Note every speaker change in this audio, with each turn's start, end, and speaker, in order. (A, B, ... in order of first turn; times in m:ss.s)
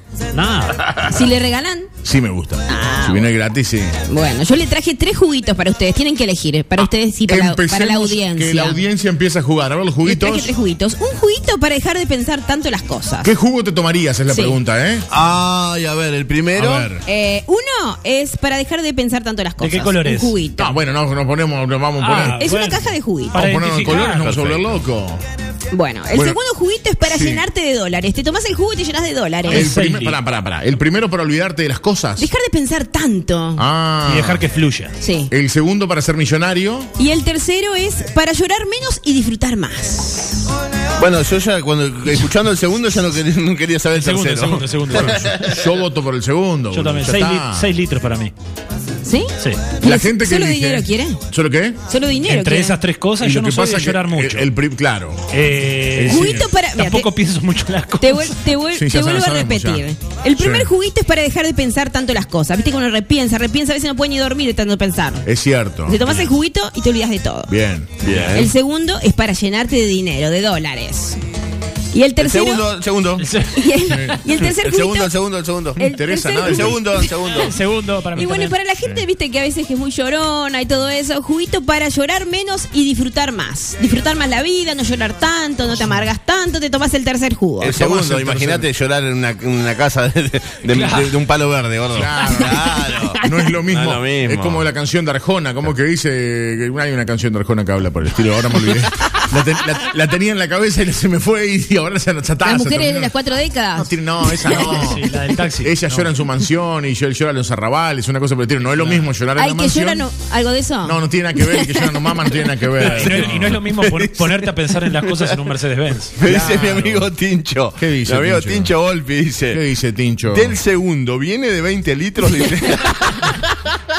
0:00.3-0:00.8 A
0:01.1-0:01.9 B
0:02.0-0:04.0 C
0:02.7-0:03.3 B
0:04.1-0:08.8 B
0:06.8-0:10.5 C
0:10.0-0:13.3 B
0:13.2-0:15.1 C
0:14.3-0:14.6 B
0:15.1-0:16.9 D
0:16.6-0:17.0 C
0:17.0-0:20.8 B
0:19.6-0:20.4 A
0:20.6-0:22.4 C
0:22.0-0:24.4 A
0:22.2-0:23.4 B
0:23.3-0:25.2 C
0:23.8-0:24.8 D
0:25.7-0:29.7 B
0:26.1-0:26.4 C
0:27.0-0:27.5 C
0:29.4-0:30.2 A
0:29.5-0:32.3 C
0:32.2-0:33.6 B
0:33.6-0:34.4 C
0:34.0-0:35.0 A
0:35.0-0:35.3 B
0:35.3-0:36.9 C
0:37.0-0:40.4 B
0:41.0-0:45.7 D
0:44.0-0:45.4 A
0:45.0-0:47.7 C
0:46.7-0:48.3 A
0:49.0-0:51.2 B
0:49.8-0:51.8 C
0:51.9-0:52.8 B
0:52.2-0:54.5 A
0:53.2-0:55.3 C
0:55.3-0:58.4 A
0:55.9-0:56.5 C
0:56.1-0:57.1 B
0:58.0-1:05.3 B
0:58.7-0:59.9 C
1:00.4-1:00.7 C
1:05.2-1:06.3 C
1:05.9-1:07.5 B
1:07.5-1:08.4 C
1:08.0-1:08.5 D
1:08.1-1:08.4 A
1:08.3-1:11.2 B
1:11.9-1:12.7 B
1:12.2-1:13.3 D
1:13.2-1:14.1 A
1:13.6-1:15.1 B
1:13.8-1:14.4 C
1:14.4-1:17.6 D
1:15.8-1:17.0 C
1:15.8-1:17.0 B
1:17.2-1:18.6 A
1:18.2-1:27.8 B
1:27.6-1:28.7 C
1:27.6-1:34.7 D
1:30.7-1:31.2 A
1:31.9-1:43.1 C
1:32.6-1:33.3 A
1:42.4-1:44.9 B
1:43.8-1:45.1 C
1:44.6-1:46.2 A
1:45.6-1:50.0 C
1:48.8-1:49.1 A
1:49.4-1:52.4 B
1:50.8-1:53.5 C
1:52.8-1:56.4 A
1:52.8-1:55.2 D
1:56.2-1:59.6 D
1:56.2-1:57.1 C
1:57.8-1:58.7 C
1:59.5-2:00.6 C
2:00.2-2:03.8 D